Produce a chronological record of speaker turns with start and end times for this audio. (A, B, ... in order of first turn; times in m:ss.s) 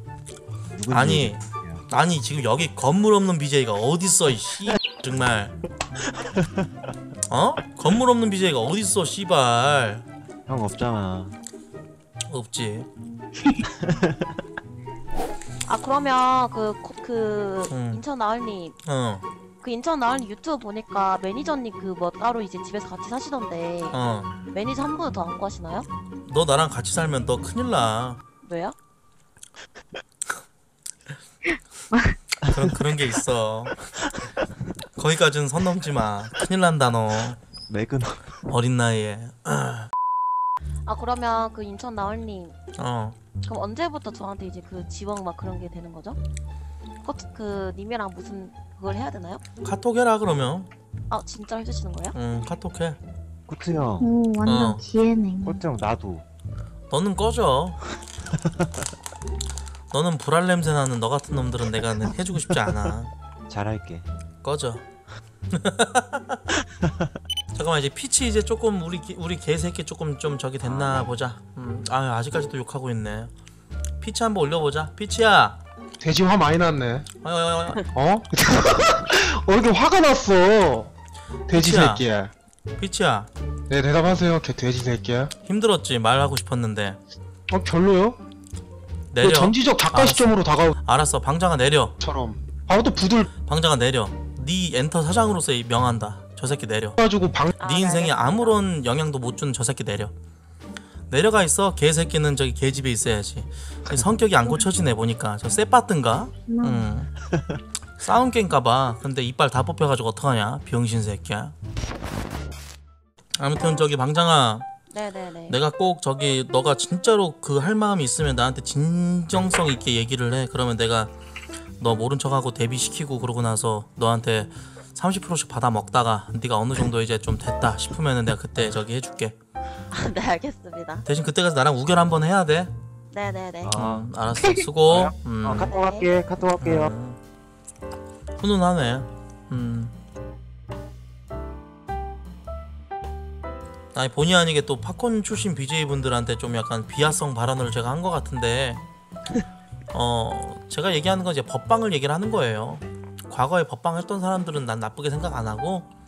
0:00.7-0:01.8 A
0:00.9-0:05.6 B
0:06.2-0:06.6 A
0:07.3-0:10.0 B
0:10.5-0:11.3 A
0:12.3-0:12.9 B
0:13.8-0:14.3 A
0:15.6-0:18.8 C
0:17.7-0:18.0 B
0:18.8-0:19.2 B
0:19.6-0:25.9 C
0:23.9-0:24.3 B
0:26.3-0:28.2 B
0:28.4-0:28.7 C
0:31.9-0:32.2 D
0:32.4-0:33.9 B
0:35.0-0:37.4 B
0:37.7-0:38.4 A
0:38.5-0:39.9 B
0:40.8-0:42.6 C
0:42.8-0:43.2 B
0:43.4-0:46.2 C
0:47.0-0:49.4 C
0:49.6-0:50.7 B
0:51.1-0:52.1 C
0:52.1-0:53.0 B
0:53.5-0:54.1 A
0:54.0-0:55.6 D
0:54.4-0:54.8 B
0:55.4-0:56.2 A
0:56.9-0:57.8 B
0:58.3-0:58.7 A
0:59.9-1:03.1 B
1:03.5-1:04.1 A
1:04.4-1:04.8 B
1:05.5-1:06.4 B
1:06.8-1:07.1 A
1:07.5-1:13.3 B
1:10.8-1:11.0 A
1:14.0-1:15.6 B
1:16.0-1:17.0 E
1:17.2-1:17.8 B
1:17.9-1:20.9 E
1:21.5-1:22.3 E
1:21.5-1:22.0 B
1:22.8-1:23.3 B
1:23.7-1:25.3 E
1:25.4-1:27.0 B
1:27.5-1:28.2 E
1:29.1-1:31.9 B
1:29.2-1:30.7 E
1:32.0-1:33.3 E
1:33.4-1:37.0 B
1:37.0-1:37.5 E
1:37.6-1:38.6 C
1:37.6-1:40.1 B
1:41.1-1:47.1 B
1:46.4-1:46.9 D
1:47.3-1:47.6 A
1:48.0-1:51.5 B
1:53.4-1:54.6 B
1:54.9-1:55.6 C
1:55.5-2:01.1 B
2:01.8-2:09.4 B
2:09.9-2:11.0 C
2:11.0-2:12.7 B
2:13.1-2:13.7 C
2:13.6-2:14.1 A
2:13.7-2:15.7 B
2:14.8-2:16.9 A
2:15.7-2:16.1 C
2:16.6-2:17.2 B
2:18.4-2:19.9 B
2:23.9-2:28.8 B
2:29.9-2:35.9 B